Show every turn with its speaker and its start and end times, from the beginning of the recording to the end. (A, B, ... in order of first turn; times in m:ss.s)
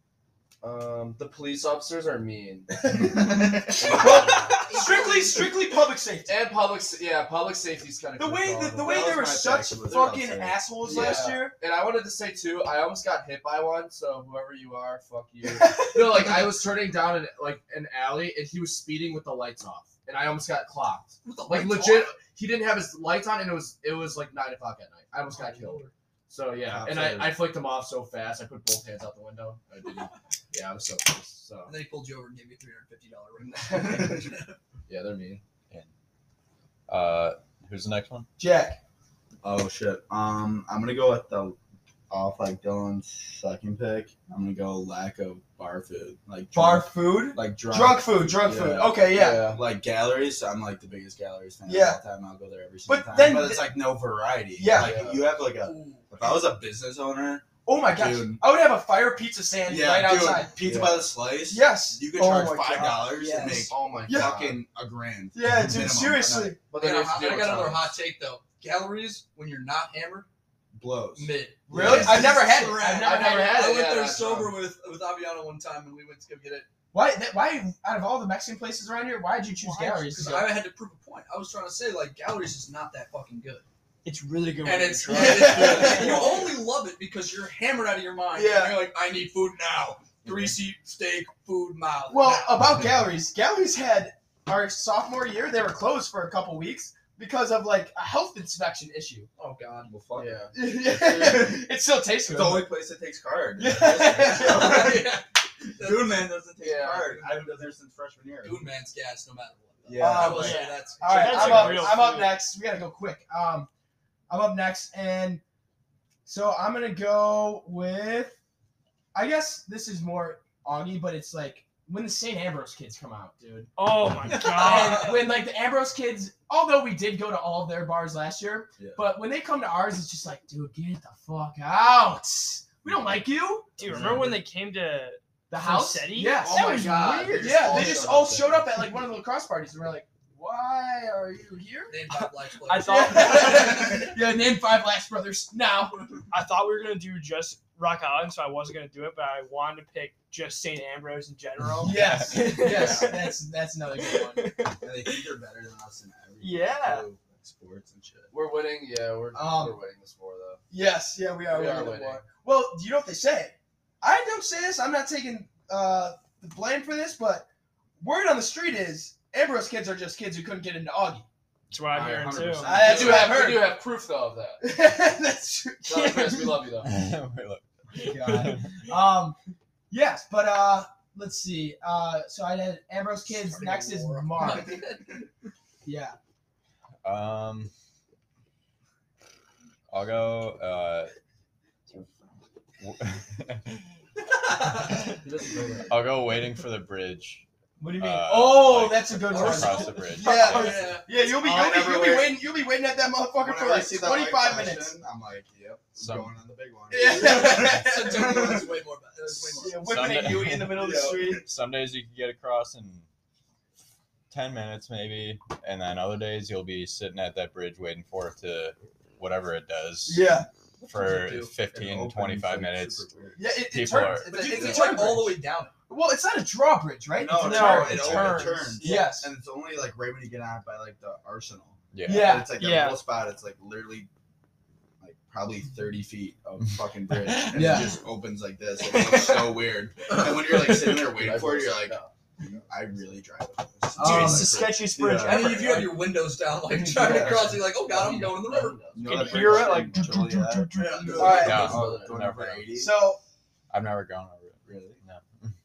0:00.6-0:02.9 A
0:02.8-0:06.3 B
0:03.1-0:03.6 C
0:03.8-0:05.1 A
0:03.9-0:05.4 D
0:06.3-0:09.9 A
0:08.2-0:11.6 B
0:08.8-0:11.3 C
0:10.8-0:31.7 A
0:15.5-0:16.4 B
0:21.2-0:22.1 D
0:25.3-0:25.9 D
0:26.6-0:27.5 C
0:31.6-0:34.5 D
0:33.7-0:34.2 A
0:34.9-0:35.4 A
0:36.9-0:38.3 E
0:38.4-0:38.8 B
0:39.4-0:41.6 C
0:42.1-0:58.4 C
0:46.5-0:49.6 B
0:49.1-0:49.6 A
0:51.6-0:52.0 B
0:52.9-0:53.7 B
0:54.6-0:55.0 B
0:54.7-0:55.2 A
0:55.5-0:56.1 D
0:57.6-1:00.5 B
0:59.7-1:06.6 C
1:00.6-1:01.1 A
1:01.5-1:04.4 B
1:03.3-1:04.6 A
1:05.3-1:06.6 B
1:06.7-1:08.0 A
1:06.8-1:10.3 D
1:10.7-1:12.5 C
1:11.2-1:16.7 D
1:11.7-1:13.6 B
1:12.9-1:14.6 A
1:16.9-1:20.6 B
1:19.6-1:20.3 F
1:20.1-1:23.6 D
1:24.0-1:26.5 F
1:24.6-1:32.7 D
1:25.1-1:26.4 B
1:28.3-1:28.9 B
1:30.2-1:30.6 C
1:32.1-1:39.3 B
1:39.4-1:39.9 D
1:39.8-1:41.6 C
1:40.1-1:40.6 A
1:40.5-1:42.7 B
1:42.3-1:45.1 C
1:43.6-1:45.0 B
1:44.1-1:46.3 D
1:45.8-1:48.6 C
1:46.6-1:47.3 A
1:48.4-1:52.0 D
1:49.8-1:50.7 C
1:50.0-1:53.7 B
1:50.3-1:52.4 F
1:54.3-1:55.4 B
1:56.2-1:58.4 B
1:59.1-2:03.7 B
2:03.8-2:05.3 F
2:04.4-2:13.8 B
2:04.4-2:05.0 D
2:08.8-2:09.0 C
2:13.8-2:16.6 F
2:13.8-2:14.4 C
2:15.5-2:22.0 B
2:16.4-2:18.6 A
2:17.1-2:18.0 C
2:21.9-2:24.1 D
2:22.2-2:23.9 F
2:22.8-2:26.1 B
2:26.3-2:33.4 F
2:31.8-2:34.5 B
2:32.5-2:33.1 C
2:34.0-2:35.2 F
2:34.8-2:38.3 C
2:36.4-2:37.1 F
2:38.3-2:40.6 A
2:39.3-2:39.8 B
2:40.7-2:47.5 B
2:41.5-2:42.2 A
2:48.0-2:51.3 B
2:51.7-2:52.8 F
2:51.8-2:53.4 C
2:52.6-2:53.8 B
2:52.8-2:54.6 A
2:54.6-2:56.4 B
2:55.8-2:56.9 A
2:56.8-2:58.4 E
2:58.0-2:58.6 F
2:58.0-2:59.4 B
2:59.9-3:04.8 B
3:03.2-3:05.2 D
3:05.8-3:06.2 B
3:07.0-3:07.7 E
3:09.9-3:11.1 E
3:12.8-3:13.8 E
3:15.1-3:16.0 A
3:15.9-3:17.4 E
3:17.8-3:25.0 B
3:18.0-3:21.0 E
3:19.3-3:21.0 D
3:21.1-3:22.4 C
3:23.4-3:28.6 C
3:26.0-3:26.3 E
3:26.9-3:28.6 B
3:27.0-3:29.9 D
3:29.6-3:31.4 B
3:29.7-3:33.0 E
3:30.7-3:31.4 C
3:34.3-3:40.4 E
3:40.1-3:40.5 B
3:40.8-3:41.3 D
3:40.9-3:44.4 E
3:41.0-3:43.4 C
3:43.4-3:49.3 B
3:44.3-3:45.7 D
3:47.2-3:54.1 C
3:47.3-3:49.0 F
3:47.6-3:49.0 E
3:51.9-3:52.4 E
3:52.0-3:52.5 B
3:52.4-3:53.0 F
3:55.0-4:05.9 C
3:57.2-3:57.8 E
3:57.5-3:57.9 B
3:58.9-3:59.5 F
4:00.7-4:02.1 A
4:04.0-4:04.7 B
4:04.0-4:05.9 F
4:05.1-4:09.3 D
4:06.8-4:07.8 C
4:07.1-4:09.2 A
4:08.8-4:13.0 C
4:09.0-4:11.4 F
4:10.7-4:11.3 D
4:11.1-4:12.1 A
4:11.2-4:11.8 B
4:11.3-4:12.8 E
4:12.7-4:13.2 B
4:13.7-4:15.5 E
4:14.6-4:15.0 C